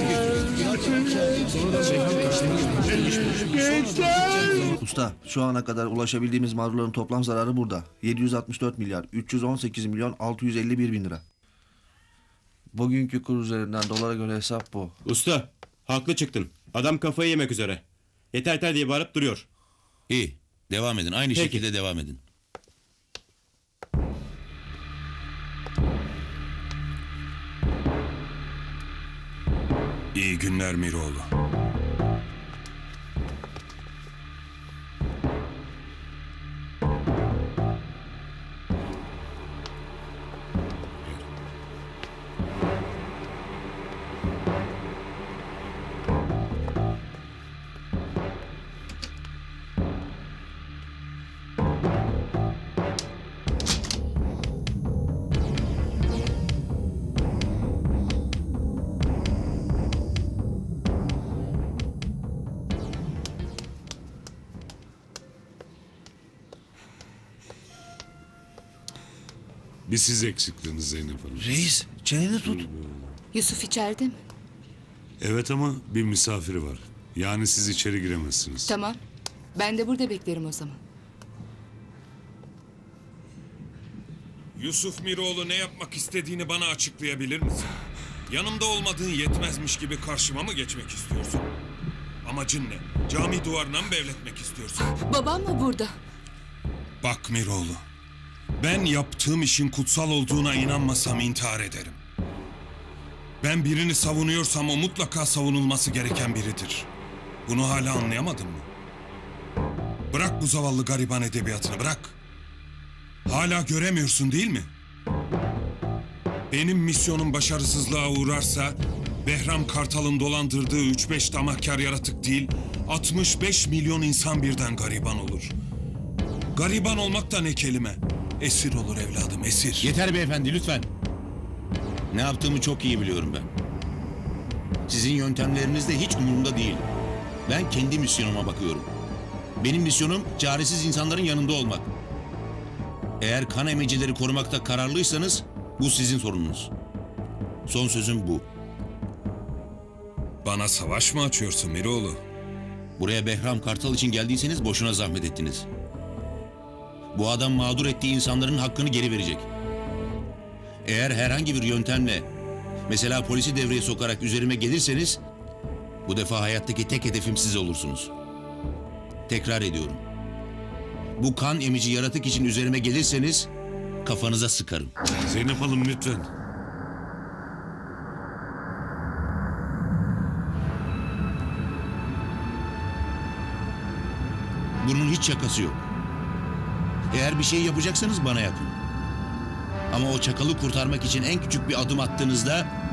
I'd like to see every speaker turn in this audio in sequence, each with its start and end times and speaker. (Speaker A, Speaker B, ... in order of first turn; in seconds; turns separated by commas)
Speaker A: 4.5-11.2, Speaker A: 12.7-14.9, Speaker B: 15.0-19.5, Speaker C: 20.1-22.2, Speaker B: 21.3-21.6, Speaker D: 30.1-31.3, Speaker E: 69.9-71.7, Speaker A: 71.3-72.7, Speaker E: 72.4-73.2, Speaker F: 73.3-74.2, Speaker E: 75.2-78.7, Speaker F: 78.7-79.0, Speaker F: 79.6-80.8, Speaker D: 84.6-87.7, Speaker D: 88.3-91.5, Speaker D: 92.2-94.9, Speaker F: 94.9-96.0, Speaker D: 97.0-97.8, Speaker D: 98.6-102.0, Speaker D: 103.4-106.9, Speaker D: 107.5-108.7, Speaker D: 110.1-112.1, Speaker D: 113.3-114.7, Speaker D: 116.5-125.5, Speaker D: 126.5-129.9, Speaker C: 129.8-130.9, Speaker C: 132.1-133.5, Speaker C: 134.9-136.8, Speaker C: 137.5-138.9, Speaker C: 139.6-141.9, Speaker C: 143.2-146.7, Speaker C: 147.7-148.5, Speaker D: 150.4-152.2, Speaker C: 153.0-155.7, Speaker C: 157.1-159.5, Speaker C: 160.8-162.3, Speaker C: 162.9-165.2, Speaker C: 166.1-168.1, Speaker C: 169.3-170.0, Speaker C: 171.2-173.5, Speaker C: 174.0-174.9, Speaker E: 175.3-176.3, Speaker C: 184.8-185.8, Speaker C: 187.1-188.8, Speaker C: 189.9-192.7